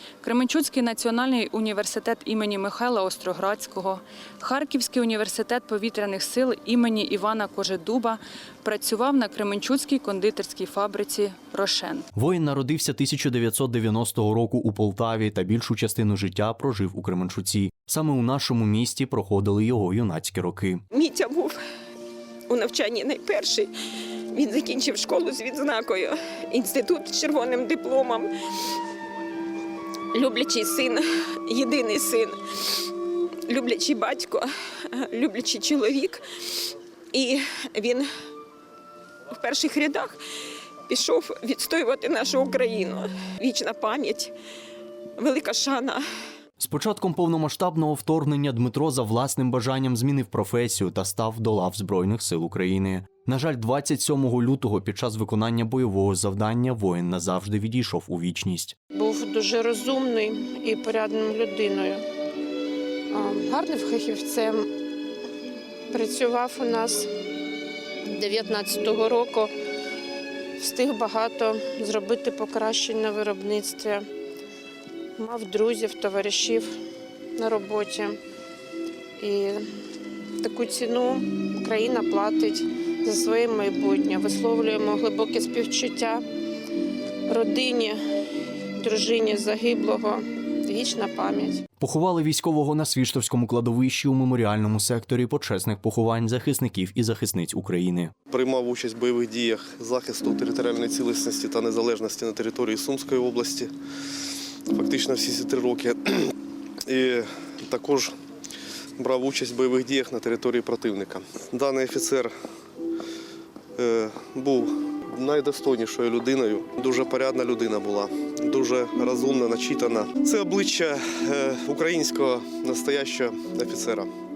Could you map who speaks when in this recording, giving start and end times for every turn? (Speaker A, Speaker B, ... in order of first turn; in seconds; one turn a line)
Speaker A: 0.2-12.1
Speaker B: 12.2-20.8
Speaker C: 20.9-21.5
Speaker C: 22.5-23.7
Speaker C: 24.3-28.3
Speaker C: 30.1-32.3
Speaker C: 33.5-36.2
Speaker C: 37.1-38.1
Speaker C: 39.4-40.1
Speaker C: 40.9-44.3
Speaker C: 45.2-46.0
Speaker B: 46.6-58.8
Speaker D: 58.9-62.0
Speaker D: 63.1-64.7
Speaker D: 65.9-67.1
Speaker D: 68.1-69.5
Speaker D: 70.6-74.0
Speaker D: 75.2-76.7
Speaker D: 77.4-78.2
Speaker D: 79.2-79.6
Speaker D: 80.4-86.2
Speaker D: 87.3-88.0
Speaker D: 88.8-91.6
Speaker B: 91.8-98.1
Speaker E: 98.3-103.7
Speaker E: 104.7-106.3
Speaker E: 106.8-108.2
Speaker E: 109.0-112.3
Speaker E: 113.8-124.1